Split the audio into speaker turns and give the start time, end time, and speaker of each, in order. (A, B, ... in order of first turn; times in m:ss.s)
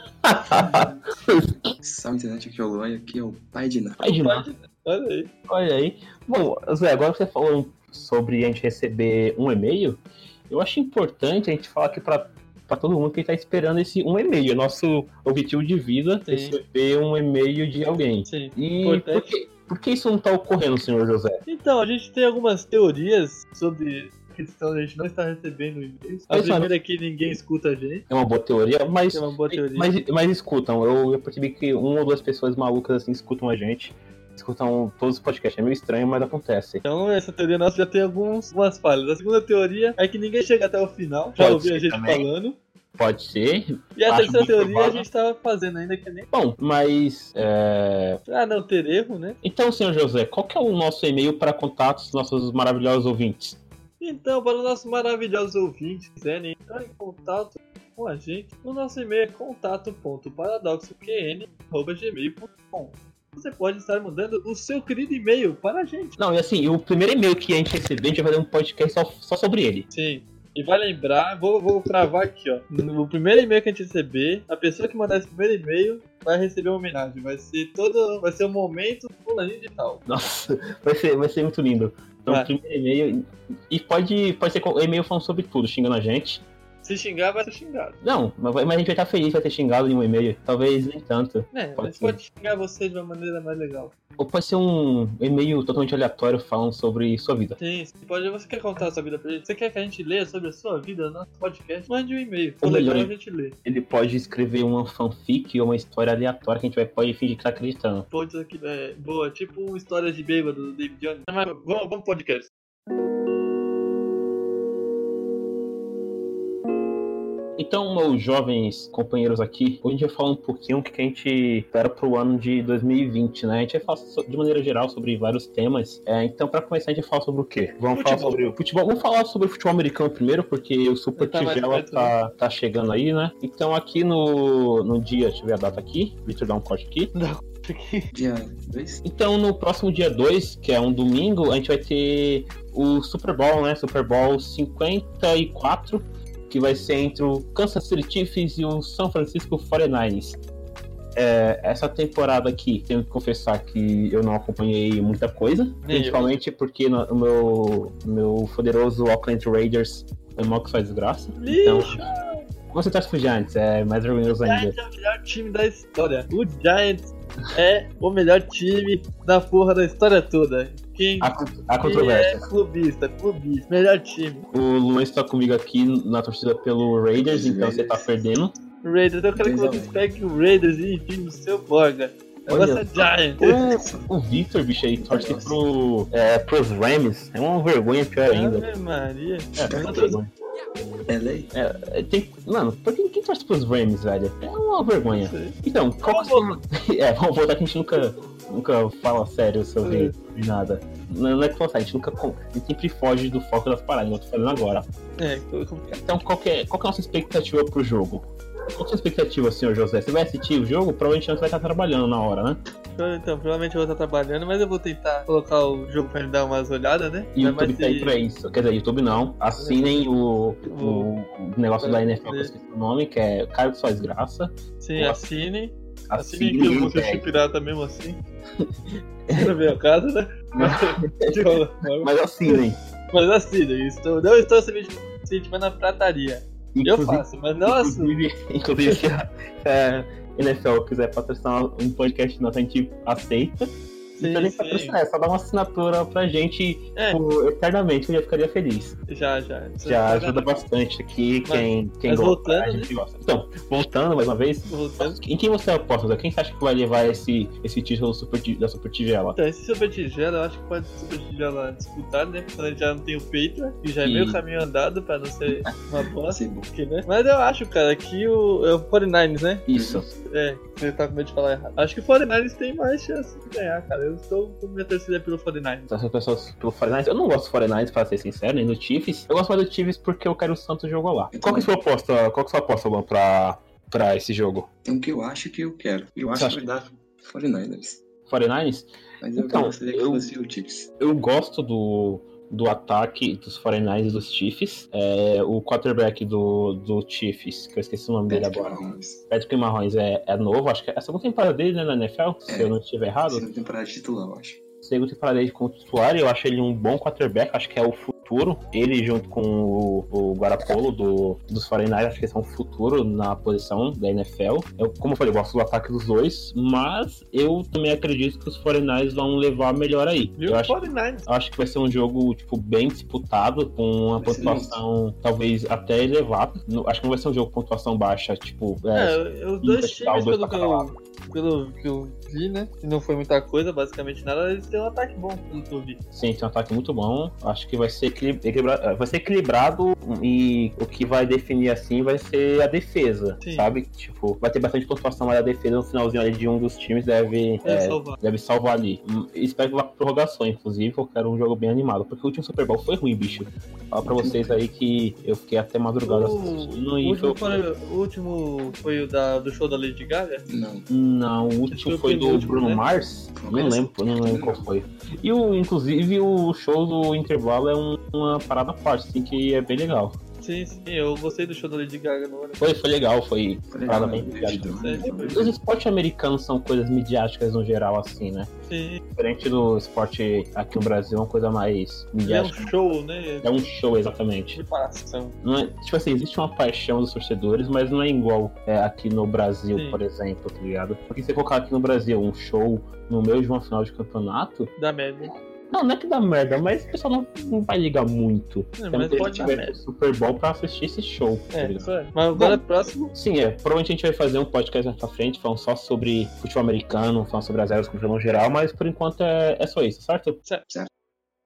0:00.2-0:01.7 A
0:00.5-0:00.9 B
0:01.8-0:04.0 C
0:04.0-0:04.4 A
0:04.2-0:05.3 B
0:05.5-0:21.4 A
0:16.2-0:16.6 B
0:18.2-0:19.3 B
0:21.4-0:28.0 B
0:26.3-0:26.7 A
0:28.1-0:36.8 A
0:29.1-0:29.9 B
0:36.8-0:42.6 B
0:41.4-0:42.2 A
0:43.0-0:45.0 A
0:44.0-0:46.3 B
0:46.3-0:48.2 A
0:48.2-0:49.4 B
0:49.4-0:53.6 A
0:54.0-1:06.2 B
1:06.2-1:09.9 A
1:09.9-1:20.0 B
1:20.0-1:26.4 A
1:26.8-1:28.0 B
1:28.0-1:32.2 A
1:31.5-1:33.9 B
1:34.2-1:37.6 A
1:37.6-1:43.6 B
1:42.6-1:43.1 A
1:43.6-1:48.1 A
1:48.1-1:52.5 B
1:57.6-2:17.1 A
2:07.9-2:08.4 B
2:11.2-2:12.1 B
2:17.1-2:18.1 B
2:18.1-2:19.0 C
2:19.0-2:30.4 A
2:31.1-2:42.1 A
2:35.8-2:36.3 B
2:41.4-2:42.4 B
2:42.7-2:44.8 A
2:44.4-2:54.4 B
2:51.2-2:52.4 A
2:54.5-2:58.5 A
2:57.2-2:58.1 C
2:58.8-3:03.6 B
2:59.4-2:59.9 C
3:02.5-3:08.7 A
3:03.6-3:04.1 C
3:05.0-3:05.6 C
3:08.3-3:10.2 B
3:09.5-3:10.3 A
3:09.6-3:10.1 C
3:11.1-3:11.5 C
3:11.5-3:24.9 A
3:15.0-3:16.6 B
3:19.8-3:20.1 B
3:25.2-3:25.9 B
3:25.9-3:32.6 A
3:33.0-3:38.2 B
3:37.3-3:45.2 A
3:39.6-3:40.1 B
3:40.6-3:41.1 B
3:41.8-3:42.5 B
3:44.8-3:48.2 B
3:46.1-3:47.2 A
3:48.6-3:49.5 A
3:49.3-3:58.2 B
3:50.5-3:52.8 A
3:56.7-4:03.6 A
4:04.2-4:05.0 B
4:04.2-4:09.0 A
4:09.1-4:10.5 B
4:09.8-4:19.4 A
4:11.4-4:12.9 B
4:14.7-4:15.2 B
4:19.4-4:29.6 B
4:24.0-4:24.4 A
4:26.3-4:26.7 C
4:29.7-4:30.1 A
4:29.7-4:30.1 C
4:30.2-4:35.9 B
4:35.9-4:44.7 A
4:41.3-4:41.7 C
4:44.8-4:48.0 C
4:46.3-4:46.6 A
4:48.3-4:50.3 A
4:49.2-4:50.9 C
4:51.0-5:03.4 A
4:58.3-4:59.2 C
5:02.5-5:02.7 C
5:03.3-5:04.6 C
5:04.8-5:30.9 A
5:20.4-5:21.3 B
5:24.2-5:24.8 C
5:28.9-5:36.0 B
5:36.1-5:57.6 A
5:43.4-5:43.8 B
5:47.6-5:48.2 B
5:54.2-5:54.6 C
5:56.0-6:00.4 B
6:00.5-6:00.8 C
6:00.9-6:10.2 A
6:01.7-6:02.8 B
6:03.2-6:04.7 C
6:10.4-6:12.8 B
6:12.6-6:14.7 A
6:13.7-6:15.6 C
6:14.8-6:15.4 B
6:15.3-6:18.5 A
6:18.7-6:19.0 B
6:19.1-6:22.7 A
6:22.2-6:23.5 B
6:23.4-6:24.6 A
6:24.5-6:25.4 B
6:25.4-6:34.7 A
6:29.7-6:30.0 B
6:34.8-6:35.3 B
6:35.7-6:50.4 A
6:38.8-6:39.8 B
6:39.1-6:39.5 C
6:41.5-6:43.1 B